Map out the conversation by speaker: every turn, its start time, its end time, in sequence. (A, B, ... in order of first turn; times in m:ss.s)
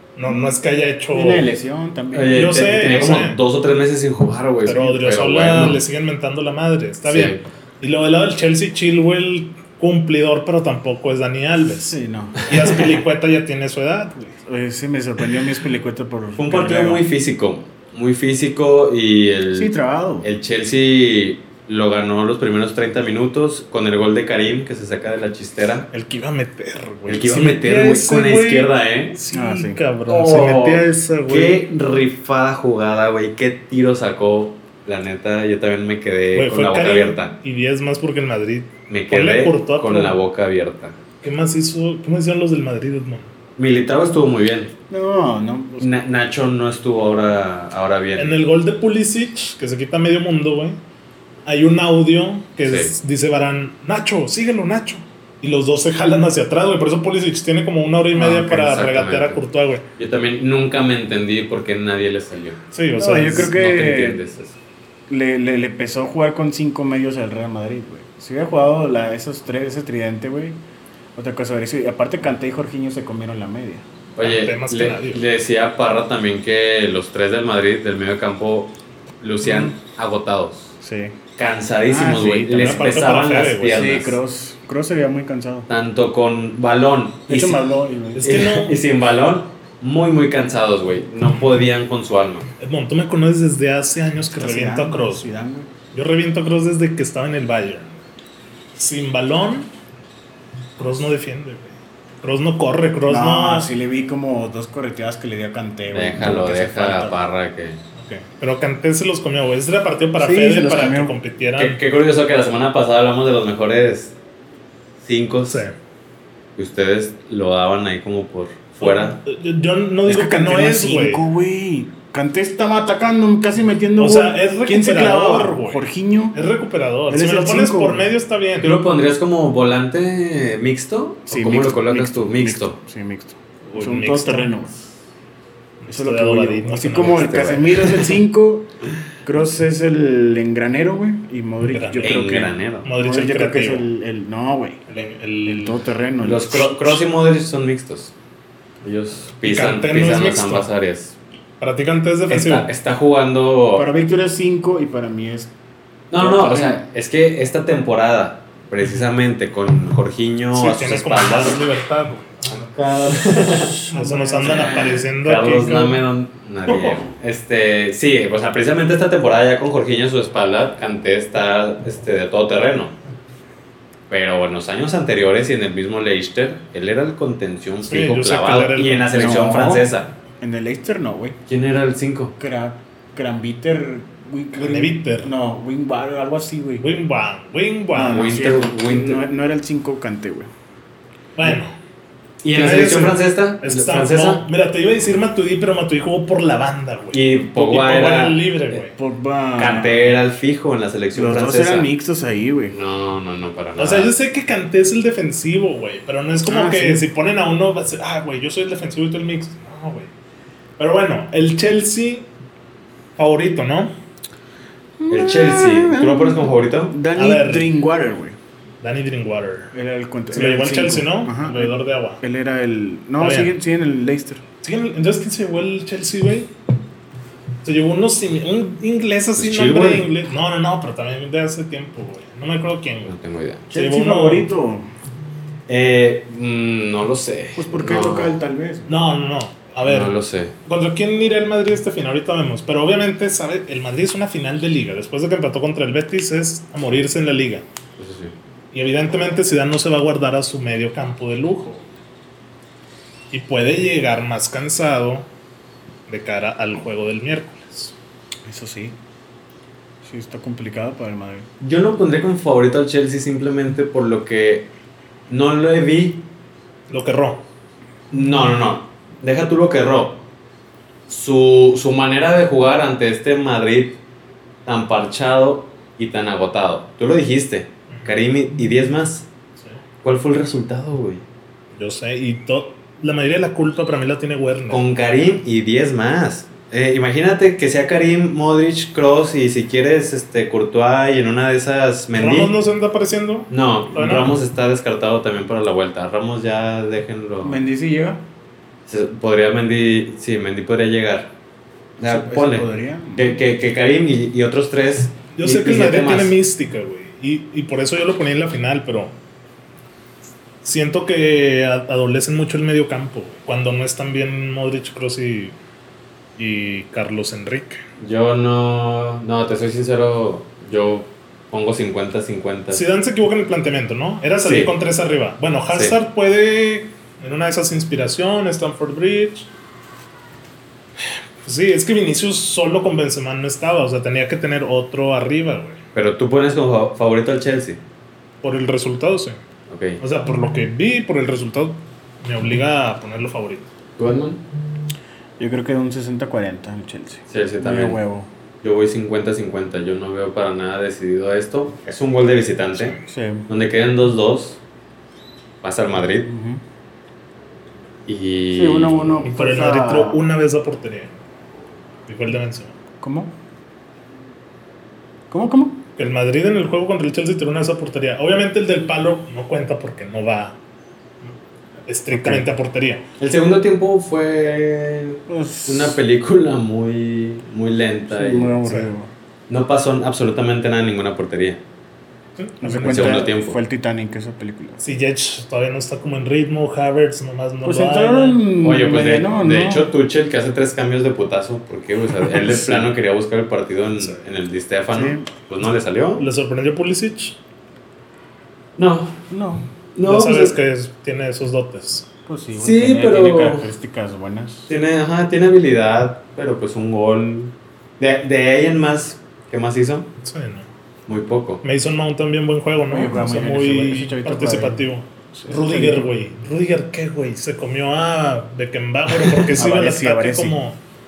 0:00.2-0:01.5 A
0:00.2-0:00.6 B
0:01.1-0:02.8 B
0:02.1-0:05.8 C
0:02.3-0:03.4 A
0:04.6-0:11.9 A
0:07.0-0:07.4 C
0:11.6-0:12.5 B
0:12.4-0:14.4 A
0:14.4-0:17.0 B
0:16.4-0:25.9 C
0:19.5-0:20.3 B
0:25.9-0:31.6 A
0:27.1-0:29.2 C
0:29.3-0:29.8 B
0:30.1-0:37.3 C
0:36.3-0:40.2 A
0:38.9-0:41.0 C
0:41.2-0:43.3 A
0:43.6-0:44.7 C
0:44.9-0:46.0 B
0:45.8-0:48.3 C
0:48.2-0:50.8 A
0:51.4-0:59.8 A
0:52.6-0:52.9 C
0:58.2-0:59.4 C
1:00.0-1:02.6 C
1:02.7-1:03.5 A
1:03.0-1:04.2 B
1:03.2-1:04.5 C
1:05.1-1:10.6 B
1:11.1-1:13.8 B
1:14.2-1:20.7 C
1:14.2-1:15.2 A
1:19.4-1:19.7 B
1:20.8-1:21.2 B
1:21.4-1:24.2 C
1:21.8-1:22.9 B
1:22.6-1:23.9 A
1:23.7-1:25.7 B
1:25.7-1:27.6 C
1:27.3-1:28.4 B
1:28.1-1:28.8 A
1:28.2-1:32.4 C
1:32.6-1:35.2 A
1:34.3-1:35.7 B
1:35.9-1:37.9 A
1:38.8-1:39.7 A
1:40.8-1:43.7 A
1:43.1-1:47.3 B
1:45.9-1:47.8 C
1:48.0-1:51.8 A
1:50.2-1:51.1 B
1:51.6-1:54.1 C
1:55.0-1:55.6 C
1:55.5-1:55.7 A
1:56.6-1:59.2 C
1:58.8-2:01.2 A
2:00.0-2:06.4 B
2:04.0-2:08.8 A
2:07.1-2:08.1 B
2:08.6-2:12.8 C
2:11.3-2:14.8 B
2:13.7-2:14.5 A
2:15.8-2:17.6 A
2:15.9-2:18.7 B
2:17.0-2:18.1 C
2:19.2-2:24.8 B
2:21.7-2:22.3 A
2:22.0-2:22.9 C
2:22.8-2:23.9 A
2:24.9-2:25.8 A
2:25.4-2:27.0 B
2:26.2-2:28.1 C
2:28.8-2:31.2 C
2:29.4-2:30.7 A
2:31.6-2:32.7 A
2:32.3-2:33.9 C
2:33.7-2:35.5 B
2:36.1-2:41.6 C
2:36.2-2:36.8 B
2:40.5-2:42.6 A
2:42.6-2:43.8 C
2:42.8-2:44.9 B
2:43.9-2:46.0 A
2:44.4-2:52.9 C
2:46.7-2:47.0 A
2:54.1-3:00.1 C
2:57.8-2:59.3 A
2:59.1-2:59.9 B
3:00.4-3:01.4 B
3:01.5-3:02.3 C
3:02.4-3:06.8 B
3:04.6-3:05.3 A
3:06.8-3:08.3 A
3:07.9-3:10.5 B
3:08.1-3:09.2 C
3:11.4-3:11.7 A
3:12.4-3:14.4 C
3:12.5-3:18.9 A
3:17.1-3:18.4 C
3:18.9-3:20.2 B
3:19.6-3:21.9 C
3:21.1-3:22.8 B
3:22.7-3:24.1 C
3:23.8-3:30.1 A
3:26.5-3:27.0 B
3:30.8-3:32.2 A
3:33.2-3:33.9 A
3:35.0-3:38.4 B
3:35.1-3:36.9 C
3:37.1-3:37.7 A
3:38.8-3:39.7 A
3:39.7-3:44.4 B
3:40.3-3:42.2 A
3:43.2-3:43.5 A
3:44.6-3:46.5 A
3:47.6-3:53.2 A
3:49.4-3:50.1 C
3:53.1-3:53.7 C
3:53.7-3:54.9 B
3:53.7-3:54.5 A
3:55.7-3:58.4 C
3:57.6-3:59.0 B
3:58.9-4:07.6 A
3:59.8-4:00.5 C
4:08.0-4:08.3 C
4:08.7-4:11.8 A
4:13.3-4:15.2 A
4:16.1-4:17.9 A
4:18.4-4:19.0 B
4:20.0-4:21.5 B
4:21.6-4:24.7 C
4:25.3-4:26.2 C
4:26.9-4:27.4 A
4:28.1-4:30.2 C
4:31.1-4:34.0 C
4:34.6-4:39.3 C
4:40.0-4:41.2 C
4:41.7-4:44.8 A
4:44.7-4:52.5 C
4:52.2-4:54.3 A
4:53.5-4:57.6 C
4:57.4-4:58.2 B
4:58.9-5:01.3 C
5:02.0-5:06.4 C
5:02.0-5:03.4 B
5:05.3-5:09.1 A
5:10.6-5:15.5 A
5:16.4-5:17.8 A
5:18.0-5:22.8 C
5:22.7-5:29.5 A
5:24.4-5:24.7 C
5:25.7-5:26.0 C
5:31.4-5:35.8 A
5:35.9-5:37.8 C
5:38.4-5:39.4 A
5:39.7-5:40.0 C
5:40.0-5:43.7 A
5:44.0-5:44.4 C
5:45.4-5:48.3 B
5:47.3-5:48.0 C
5:48.6-5:53.0 C
5:52.9-5:53.5 B
5:53.5-5:54.6 C
5:55.6-5:56.3 C
5:56.2-5:56.6 B
5:58.1-5:59.2 C
5:58.5-6:00.2 B
5:59.2-6:01.1 A
6:02.1-6:02.7 A
6:03.0-6:03.3 B
6:05.3-6:05.8 B
6:06.0-6:10.6 A
6:11.9-6:13.0 A
6:12.1-6:12.4 B
6:13.2-6:18.6 C
6:15.3-6:16.0 B
6:18.1-6:19.1 B
6:19.5-6:21.6 C
6:22.4-6:23.2 A
6:22.6-6:24.8 B
6:22.8-6:23.6 C
6:24.8-6:28.5 A
6:27.6-6:29.9 B
6:28.6-6:36.2 C
6:32.2-6:32.9 B
6:34.9-6:35.3 B
6:36.2-6:37.4 A
6:38.8-6:39.2 C
6:39.3-6:39.7 B
6:39.9-6:40.6 C
6:40.0-6:42.1 A
6:42.3-6:44.7 B
6:42.6-6:43.7 C
6:44.7-6:50.1 C
6:50.2-6:50.7 A
6:51.1-6:51.6 C
6:51.6-7:00.8 A
6:52.9-6:56.1 B
6:59.6-7:00.6 B